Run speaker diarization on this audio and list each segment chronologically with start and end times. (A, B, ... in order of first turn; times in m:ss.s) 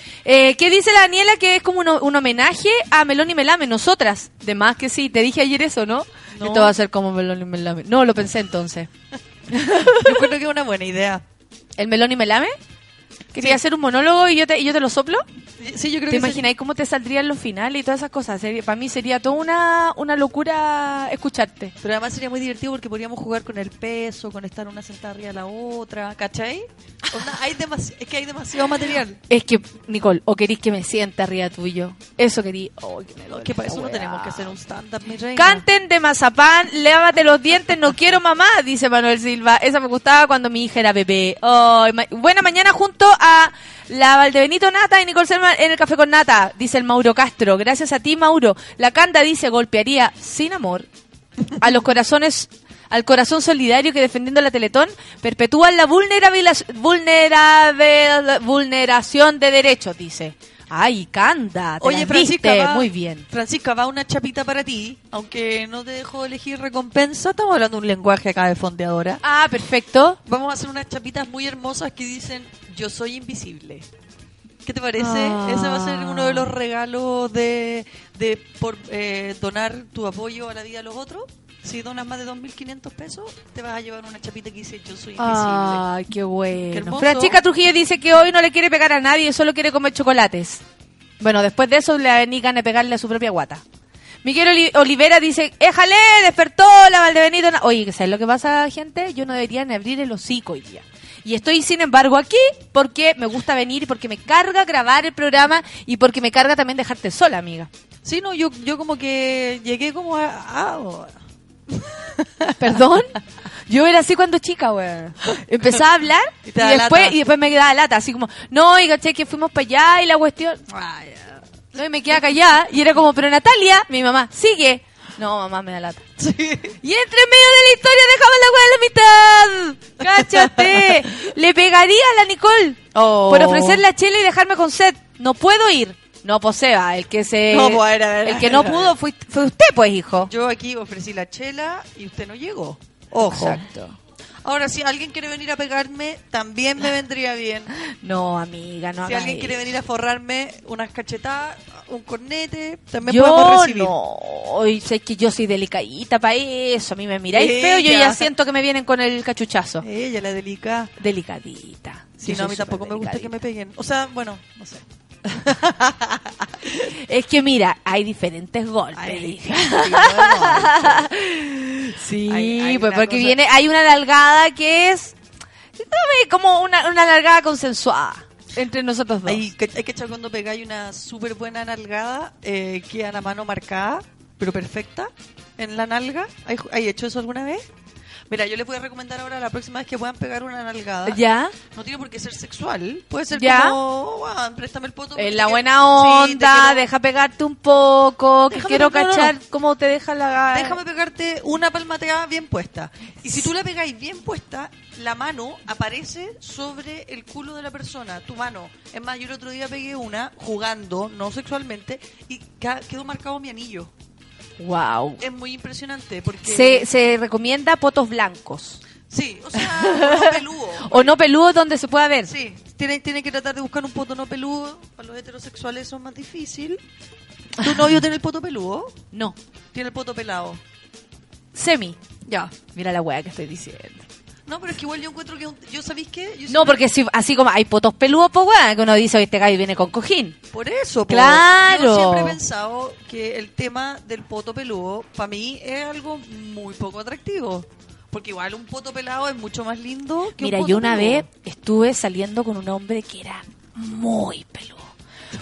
0:00.2-0:08.9 A
0:06.3-0:06.7 B
0:09.5-0:10.3 A
0:10.0-0:11.2 B
0:11.8-0:12.6 A
0:13.3-0:15.2 A
0:15.6-0:16.5 B
0:16.1-0:21.7 A
0:21.8-0:29.2 B
0:29.3-0:34.5 A
0:33.3-0:35.6 B
0:35.4-0:50.9 A
0:51.6-1:03.2 A
1:01.8-1:09.2 B
1:09.2-1:10.2 A
1:10.3-1:13.9 B
1:14.6-1:25.8 B
1:15.0-1:16.5 A
1:25.2-1:30.6 A
1:26.7-1:27.4 B
1:31.2-1:33.6 A
1:34.2-1:47.7 A
1:48.0-1:51.2 B
1:51.7-1:52.8 B
1:52.6-1:53.1 A
1:53.7-2:00.6 A
1:55.3-1:55.8 B
1:56.5-1:57.2 B
2:00.7-2:01.4 B
2:01.8-2:06.0 A
2:06.2-2:06.8 B
2:06.8-2:20.3 A
2:10.0-2:11.0 B
2:13.0-2:13.8 B
2:17.5-2:19.0 B
2:20.3-2:23.6 B
2:23.2-2:24.0 A
2:24.4-2:27.7 B
2:27.9-2:29.7 A
2:29.0-2:33.9 B
2:33.0-2:39.8 A
2:37.3-2:38.3 B
2:39.8-2:40.9 B
2:41.0-2:43.3 A
2:42.2-2:46.8 B
2:46.8-2:55.2 A
2:49.0-2:51.1 B
2:52.3-2:53.4 B
2:55.8-2:59.4 A
2:59.2-3:07.6 B
3:08.3-3:11.2 B
3:11.1-3:11.6 A
3:11.7-3:16.8 B
3:13.3-3:13.8 A
3:15.2-3:20.8 A
3:18.5-3:19.3 B
3:20.5-3:33.9 B
3:34.6-3:35.2 A
3:35.2-3:36.9 B
3:36.4-3:38.8 A
3:39.1-3:41.2 B
3:39.6-3:42.3 A
3:42.2-3:46.8 B
3:47.6-3:49.0 B
3:49.7-3:50.6 B
3:51.5-3:52.0 A
3:52.3-3:52.5 B
3:52.7-3:54.0 A
3:54.5-3:56.9 B
3:56.5-4:00.4 A
4:00.5-4:11.3 B
4:01.1-4:02.4 A
4:10.4-4:14.9 A